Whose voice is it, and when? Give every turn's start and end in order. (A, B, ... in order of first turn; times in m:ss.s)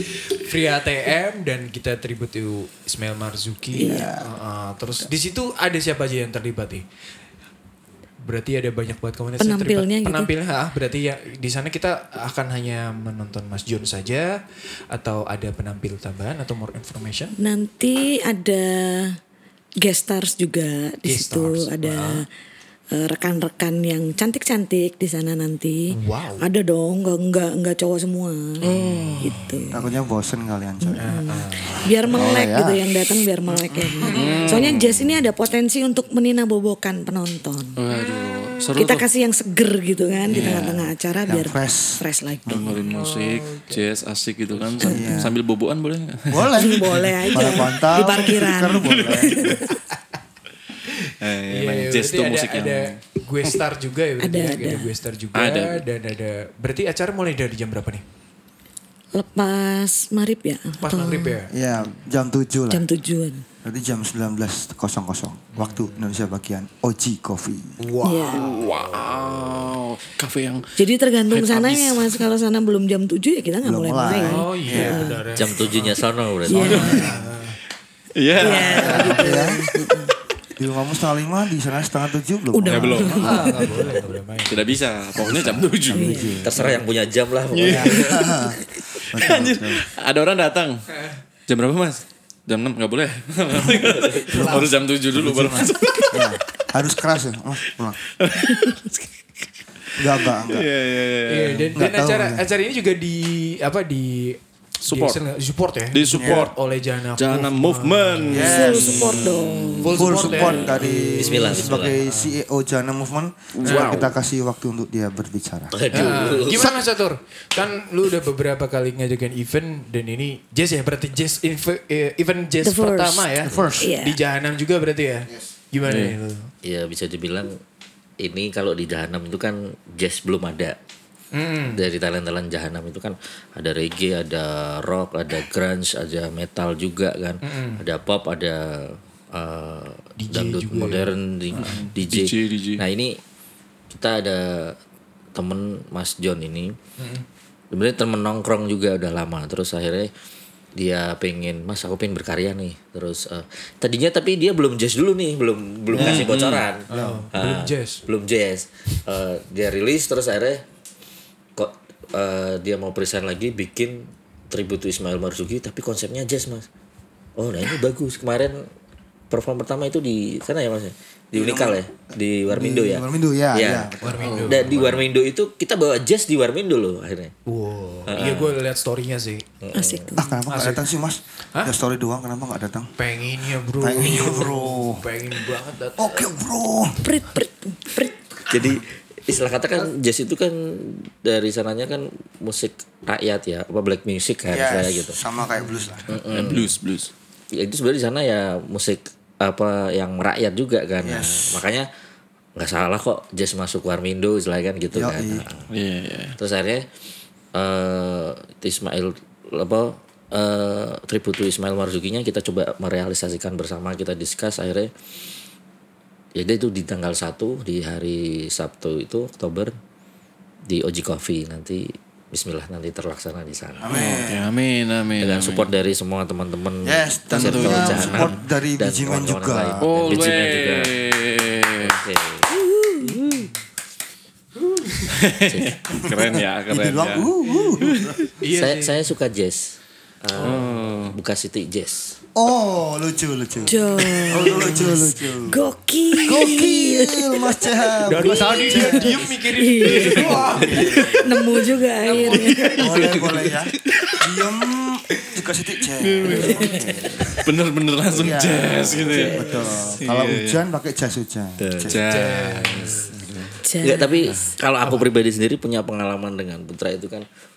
0:00.3-0:06.8 A
0:03.8-0:04.1 B
0:03.8-0:04.3 C
0:08.2-0:14.4 A
0:09.4-0:10.3 B
0:14.9-0:17.3 A
0:17.4-0:19.2 B
0:19.8-0:22.2 B
0:21.0-0:22.2 A
0:22.9-0:29.8 B
0:25.9-0:26.4 A
0:28.6-0:29.4 D
0:28.7-0:29.7 A
0:29.7-0:31.2 C
0:30.8-0:37.8 B
0:31.0-0:32.0 A
0:32.1-0:32.8 C
0:34.0-0:34.7 A
0:34.1-0:35.0 D
0:37.8-0:39.0 D
0:38.8-0:42.6 B
0:40.3-0:40.8 D
0:40.3-0:40.7 C
0:41.3-0:42.6 C
0:42.5-0:47.2 D
0:42.7-0:43.8 A
0:44.8-0:45.3 B
0:44.8-0:45.3 C
0:46.3-0:49.6 C
0:46.6-0:49.7 B
0:50.9-0:58.0 A
0:51.2-0:53.0 D
0:54.2-0:54.9 B
0:55.3-0:55.8 D
0:59.1-1:01.4 B
1:00.8-1:01.5 A
1:01.5-1:02.8 C
1:02.7-1:03.4 B
1:03.6-1:07.8 C
1:05.5-1:06.0 A
1:07.8-1:08.8 A
1:08.0-1:08.5 B
1:08.3-1:10.6 D
1:08.7-1:09.6 E
1:10.8-1:15.2 B
1:11.3-1:12.2 D
1:13.6-1:15.1 C
1:14.1-1:16.0 A
1:15.3-1:17.0 E
1:16.4-1:17.2 B
1:16.6-1:17.6 A
1:16.7-1:17.2 C
1:16.7-1:17.1 D
1:18.2-1:19.9 D
1:18.4-1:20.1 B
1:18.5-1:19.6 C
1:20.6-1:23.6 C
1:22.5-1:23.9 B
1:22.6-1:23.6 D
1:23.2-1:24.8 A
1:24.5-1:26.8 D
1:25.2-1:26.7 C
1:25.9-1:26.4 B
1:26.4-1:28.3 E
1:27.5-1:30.8 D
1:27.6-1:29.8 C
1:31.5-1:36.4 D
1:33.9-1:34.3 E
1:34.3-1:38.0 C
1:34.3-1:34.7 A
1:38.2-1:39.0 D
1:40.0-1:40.7 C
1:40.2-1:41.7 D
1:41.3-1:48.6 A
1:41.7-1:42.4 C
1:44.9-1:45.2 D
1:45.9-1:46.5 D
1:46.1-1:46.5 C
1:47.2-1:50.9 D
1:48.3-1:49.2 C
1:48.4-1:50.4 B
1:49.8-1:52.4 A
1:49.9-1:55.8 C
1:51.1-1:52.0 E
1:53.6-1:54.1 D
1:53.6-1:54.0 A
1:55.7-1:56.8 E
1:55.9-2:06.5 A
2:02.6-2:04.2 B
2:03.5-2:03.9 C
2:05.8-2:06.1 D
2:06.6-2:07.6 E
2:08.2-2:10.8 E
2:11.3-2:11.8 A
2:11.7-2:23.2 E
2:17.4-2:17.8 A
2:20.2-2:21.9 A
2:21.5-2:22.8 D
2:23.9-2:24.8 E
2:25.3-2:26.8 E
2:27.0-2:27.2 A
2:27.7-2:30.1 E
2:30.8-2:40.6 E
2:35.9-2:36.3 C
2:35.9-2:36.7 D
2:36.9-2:38.0 A
2:36.9-2:37.3 C
2:41.6-2:46.6 E
2:47.4-2:48.7 E
2:49.3-2:53.9 E
2:51.3-2:51.8 C
2:52.5-2:55.0 C
2:54.0-2:54.8 A
2:54.2-2:54.8 D
2:54.4-2:57.3 E
2:57.5-2:59.4 A
2:58.0-2:58.6 E
2:59.6-3:00.2 E
2:59.7-3:00.2 B
3:00.2-3:02.9 C
3:00.5-3:00.8 A
3:03.0-3:06.3 A
3:03.8-3:05.0 C
3:06.0-3:07.0 C
3:07.0-3:08.4 B
3:08.5-3:15.2 E
3:14.5-3:16.1 C
3:16.1-3:16.7 E
3:16.1-3:17.1 D
3:17.5-3:21.9 E
3:21.0-3:21.6 C
3:22.6-3:25.7 E
3:24.9-3:25.4 C
3:25.7-3:26.4 D
3:26.4-3:26.8 E
3:27.5-3:34.9 E
3:36.4-3:39.7 E
3:40.7-3:43.9 E
3:43.8-3:44.5 C
3:43.9-3:45.7 D
3:45.2-3:51.0 E
3:46.8-3:50.2 C
3:47.3-3:48.4 D
3:49.8-3:52.0 D
3:51.8-3:52.5 E
3:52.5-3:53.2 B
3:53.0-3:53.5 A
3:54.6-3:55.2 A
3:55.1-3:57.3 D
3:55.4-3:55.8 E
3:56.0-3:58.2 C
3:57.8-3:58.2 D
3:58.4-3:59.1 A
3:58.5-4:02.2 E
4:00.4-4:00.6 A
4:00.4-4:01.1 D
4:02.3-4:05.6 C
4:03.6-4:07.4 B
4:04.4-4:05.0 A
4:06.2-4:09.3 C
4:08.1-4:11.0 A
4:08.2-4:13.0 B
4:09.8-4:14.2 D
4:10.5-4:11.3 C
4:12.0-4:12.7 A
4:12.8-4:17.3 C
4:16.0-4:16.8 D
4:16.3-4:16.8 B
4:16.8-4:17.4 E
4:17.4-4:20.6 D
4:18.1-4:22.0 C
4:19.0-4:19.6 B
4:21.6-4:22.0 E
4:21.8-4:23.5 D
4:22.1-4:23.1 A
4:23.6-4:24.5 B
4:23.8-4:27.2 E
4:24.8-4:25.1 A